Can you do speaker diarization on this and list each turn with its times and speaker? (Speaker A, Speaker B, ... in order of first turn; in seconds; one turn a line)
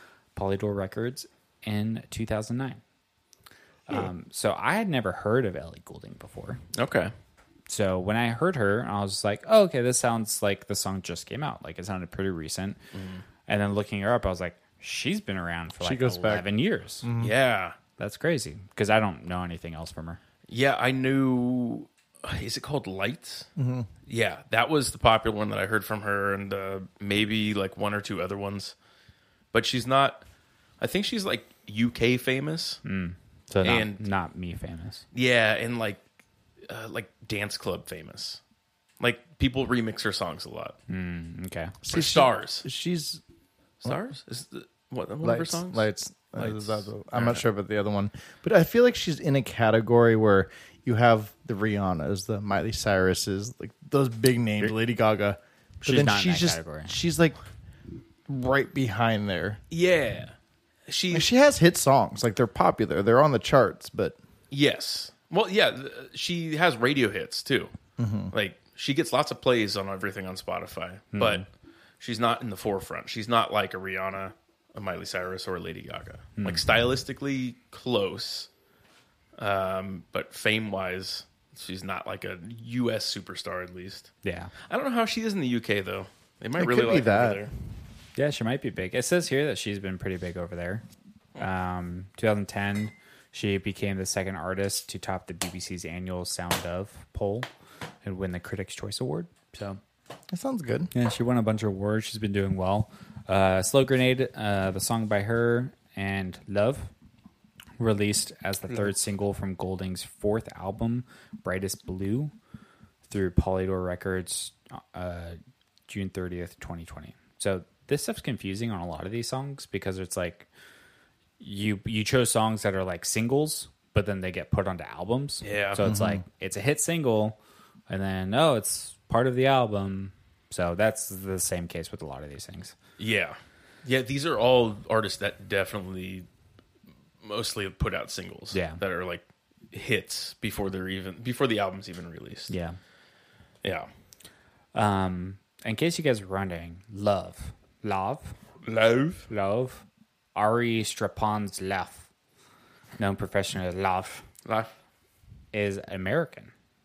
Speaker A: 0.3-2.8
Speaker A: 3.9-6.6
Speaker B: 6.7-7.1
Speaker A: 7.7-12.8
Speaker B: 12.9-13.2
Speaker A: 13.5-17.1
Speaker C: 15.8-16.5
Speaker C: 17.0-17.3
Speaker B: 17.2-17.8
Speaker A: 18.0-20.2
Speaker B: 20.5-23.5
Speaker C: 23.6-23.9
Speaker B: 24.1-28.7
Speaker B: 29.5-30.2
Speaker B: 30.8-32.8
Speaker A: 32.8-35.0
Speaker B: 33.6-34.0
Speaker B: 35.1-36.0
Speaker B: 36.7-38.4
Speaker B: 39.0-40.8
Speaker A: 40.9-41.8
Speaker C: 41.9-43.2
Speaker B: 41.9-42.6
Speaker B: 43.8-47.4
Speaker C: 45.2-57.4
Speaker A: 55.8-57.0
Speaker C: 58.3-59.6
Speaker B: 59.7-60.3
Speaker B: 60.9-61.3
Speaker C: 61.1-64.2
Speaker B: 64.5-67.7
Speaker C: 68.0-68.3
Speaker B: 68.3-71.4
Speaker A: 71.1-71.4
Speaker B: 72.0-78.5
Speaker A: 76.4-76.6
Speaker B: 79.4-84.1
Speaker A: 84.2-84.5
Speaker B: 84.7-87.5
Speaker C: 86.6-87.5
Speaker A: 88.2-90.8
Speaker A: 91.4-97.5
Speaker A: 98.0-99.8
Speaker C: 100.3-100.9
Speaker A: 100.9-106.9
Speaker A: 107.8-112.3
Speaker A: 113.1-120.5
Speaker A: 121.4-127.4
Speaker B: 125.4-125.9
Speaker C: 125.8-126.2
Speaker A: 127.9-132.7
Speaker B: 133.0-136.3
Speaker B: 137.2-142.5
Speaker A: 138.5-138.8
Speaker A: 142.5-142.8
Speaker B: 143.6-143.9
Speaker A: 144.7-148.3
Speaker B: 148.6-149.3
Speaker A: 149.3-149.8
Speaker A: 150.3-152.1
Speaker A: 153.0-154.2
Speaker B: 154.4-154.7
Speaker A: 155.5-156.5